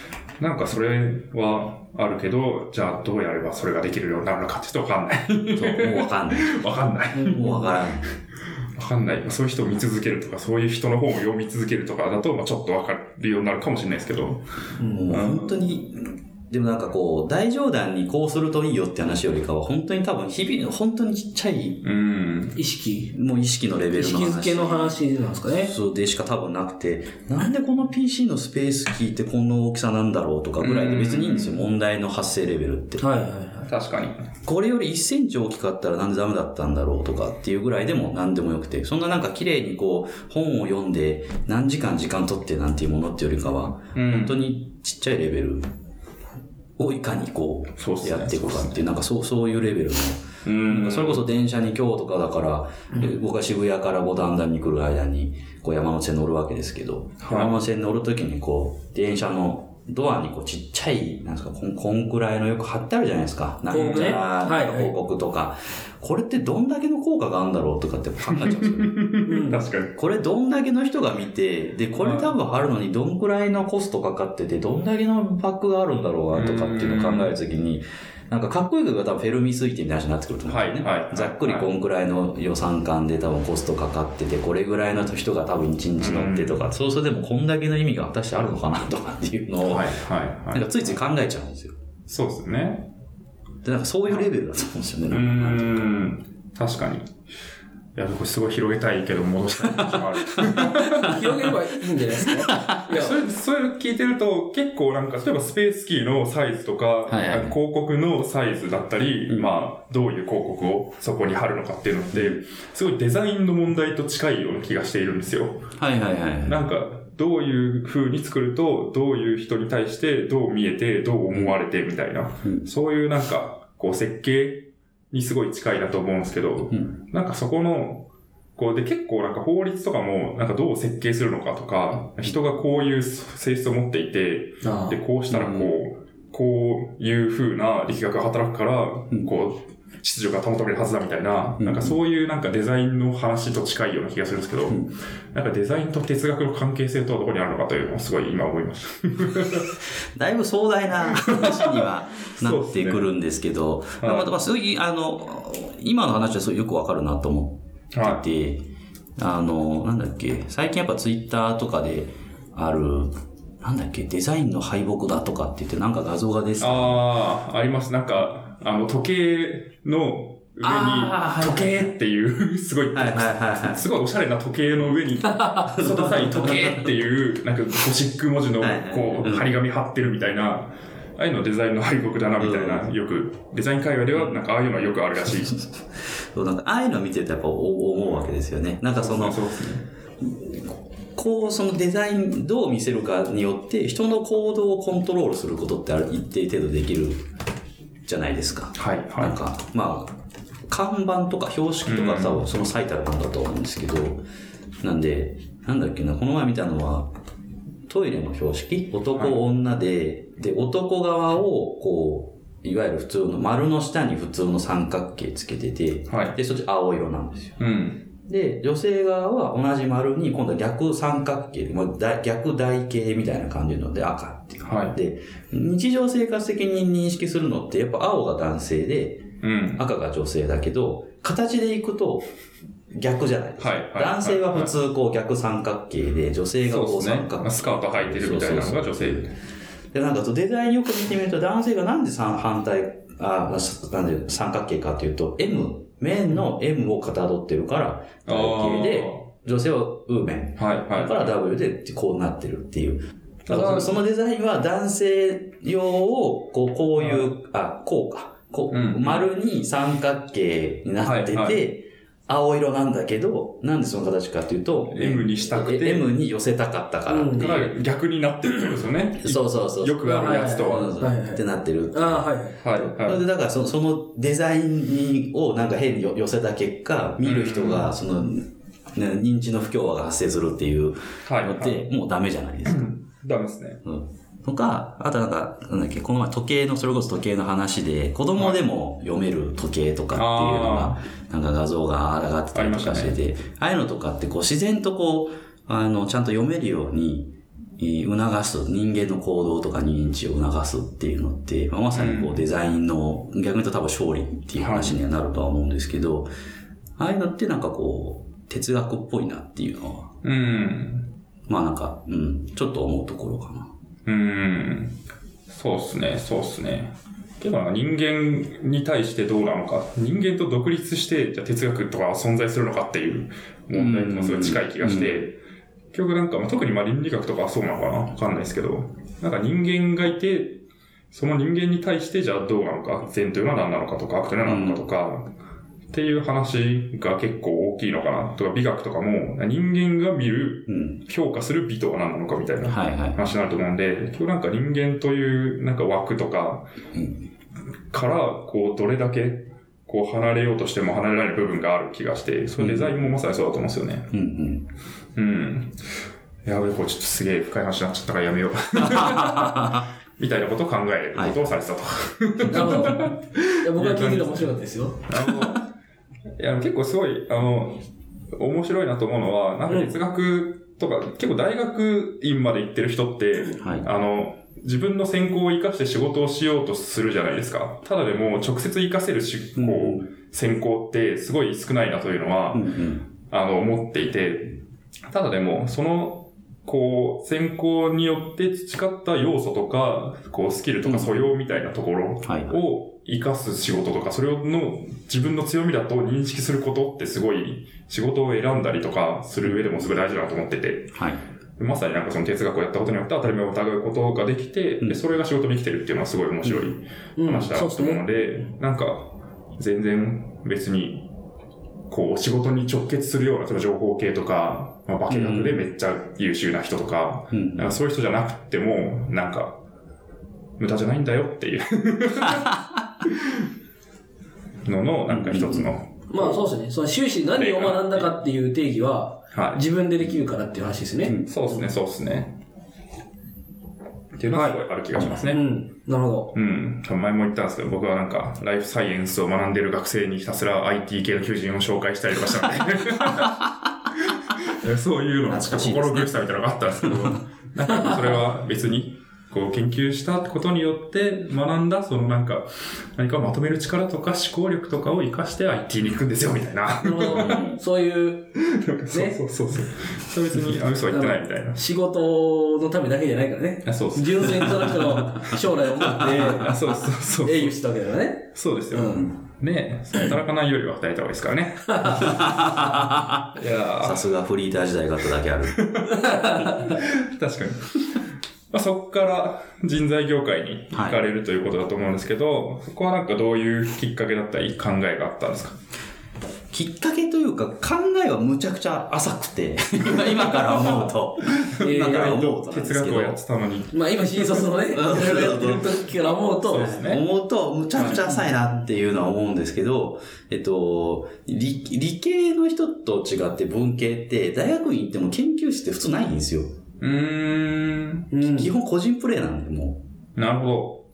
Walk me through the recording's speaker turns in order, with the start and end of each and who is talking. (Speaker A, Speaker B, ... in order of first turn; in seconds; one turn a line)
Speaker A: 0.4-8.1
Speaker B: 5.6-6.5
Speaker C: 7.1-7.7
Speaker B: 7.3-8.1
Speaker A: 8.7-14.5
Speaker C: 14.8-15.1
Speaker B: 14.9-21.8
Speaker A: 15.1-15.6
Speaker A: 21.8-22.6
Speaker C: 22.6-23.1
Speaker B: 23.1-25.0
Speaker C: 23.9-25.7
Speaker B: 25.6-33.0
Speaker A: 30.6-31.6
Speaker C: 33.0-33.7
Speaker A: 33.7-34.2
Speaker B: 34.4-45.7
Speaker A: 43.9-44.4
Speaker B: 46.8-69.0
Speaker A: 47.8-48.9
Speaker A: 50.4-51.2
Speaker A: 57.2-57.6
Speaker C: 63.7-64.9
Speaker A: 63.7-64.2
Speaker A: 68.3-69.9
Speaker C: 69.2-69.6
Speaker B: 69.9-91.8
Speaker A: 72.0-72.3
Speaker A: 76.3-77.3
Speaker A: 80.5-81.7
Speaker A: 86.0-86.7
Speaker A: 88.4-88.7
Speaker A: 89.6-90.9
Speaker A: 92.1-92.9
Speaker B: 93.6-95.9
Speaker A: 95.1-97.1
Speaker A: 98.0-101.2
Speaker B: 99.6-101.2
Speaker C: 100.8-103.2
Speaker B: 102.3-102.8
Speaker A: 102.9-115.7
Speaker B: 107.1-107.6
Speaker B: 112.1-112.4
Speaker B: 115.8-116.6
Speaker A: 116.4-149.7
Speaker C: 134.6-135.0
Speaker B: 135.3-135.7
Speaker B: 141.6-142.0
Speaker B: 150.2-158.6
Speaker A: 151.2-151.9
Speaker A: 152.4-153.1
Speaker A: 154.0-154.3
Speaker A: 157.9-158.2
Speaker B: 159.2-167.0
Speaker A: 166.6-185.6
Speaker B: 170.6-171.9
Speaker B: 172.9-173.8
Speaker C: 175.3-175.7
Speaker B: 175.7-176.9
Speaker B: 178.6-179.5
Speaker B: 182.4-182.9
Speaker B: 184.1-184.4
Speaker B: 185.4-189.4
Speaker A: 188.9-189.8
Speaker B: 190.2-197.2
Speaker B: 198.1-200.1
Speaker A: 198.8-199.3
Speaker B: 200.7-204.2
Speaker A: 201.8-202.4
Speaker B: 204.8-207.1
Speaker B: 207.9-217.6
Speaker A: 216.1-216.3
Speaker A: 217.6-218.0
Speaker B: 218.3-229.2
Speaker A: 224.6-224.9
Speaker A: 229.4-229.8
Speaker B: 229.8-232.3
Speaker B: 232.9-239.3
Speaker A: 233.6-234.7
Speaker A: 236.7-239.3
Speaker B: 239.9-267.7
Speaker A: 248.2-249.2
Speaker A: 250.6-251.2
Speaker A: 253.4-254.0
Speaker A: 258.7-259.3
Speaker A: 261.0-261.6
Speaker A: 264.8-266.1
Speaker C: 267.1-267.5
Speaker A: 267.4-271.0
Speaker B: 269.2-282.9
Speaker C: 270.0-272.6
Speaker A: 272.6-273.2
Speaker A: 277.2-277.9
Speaker A: 281.2-281.9
Speaker A: 282.6-283.8
Speaker B: 283.8-306.3
Speaker A: 290.1-291.0
Speaker A: 292.5-293.2
Speaker A: 301.9-302.4
Speaker A: 304.6-305.0
Speaker B: 307.0-310.1
Speaker A: 310.2-311.1
Speaker B: 311.5-313.7
Speaker A: 314.1-315.0
Speaker A: 315.5-325.4
Speaker B: 323.7-325.1
Speaker A: 325.9-335.3
Speaker B: 334.4-334.8
Speaker A: 335.9-346.7
Speaker B: 340.7-341.0
Speaker B: 342.7-343.2
Speaker B: 346.9-347.2
Speaker A: 347.9-354.1
Speaker B: 352.6-353.0
Speaker B: 354.1-354.6
Speaker A: 355.1-364.5
Speaker B: 358.8-359.8
Speaker B: 362.4-363.0
Speaker C: 362.5-363.1
Speaker C: 363.6-365.0
Speaker A: 365.1-365.6
Speaker A: 366.4-382.7
Speaker C: 369.7-369.9
Speaker B: 373.6-373.9
Speaker B: 379.6-380.1
Speaker B: 382.5-383.0
Speaker A: 383.2-401.0
Speaker B: 390.8-391.2
Speaker B: 392.2-392.6
Speaker B: 399.4-399.8
Speaker B: 400.9-401.2
Speaker A: 401.6-411.1
Speaker B: 406.4-406.7
Speaker C: 407.2-408.0
Speaker A: 411.9-419.6
Speaker B: 415.1-415.7
Speaker B: 417.3-417.7
Speaker A: 420.6-423.5
Speaker A: 424.6-426.5
Speaker B: 425.1-425.7
Speaker C: 426.1-431.6
Speaker A: 427.3-428.1
Speaker A: 429.3-429.6
Speaker A: 431.3-432.4
Speaker A: 434.1-435.4
Speaker C: 434.3-434.6
Speaker B: 434.9-435.2
Speaker C: 435.3-436.3
Speaker A: 436.3-443.5
Speaker A: 444.0-457.5
Speaker B: 445.3-446.1
Speaker B: 446.8-447.1
Speaker C: 456.8-458.3
Speaker B: 457.1-457.6
Speaker A: 458.4-461.6
Speaker C: 458.9-459.2
Speaker C: 460.9-469.1
Speaker A: 463.6-465.3
Speaker A: 466.1-467.6
Speaker A: 468.3-472.7
Speaker C: 471.7-472.1
Speaker B: 472.0-473.3
Speaker A: 473.3-474.1
Speaker B: 473.8-475.6
Speaker A: 475.6-478.0
Speaker C: 476.0-476.8
Speaker A: 478.5-485.6
Speaker B: 480.7-481.1
Speaker B: 486.5-493.2
Speaker A: 489.9-497.0
Speaker C: 491.6-492.3
Speaker C: 493.7-496.8
Speaker B: 494.8-495.7
Speaker B: 496.5-506.5
Speaker A: 497.7-498.0
Speaker A: 506.8-508.1
Speaker C: 508.1-508.5
Speaker B: 508.2-509.8
Speaker A: 510.1-510.8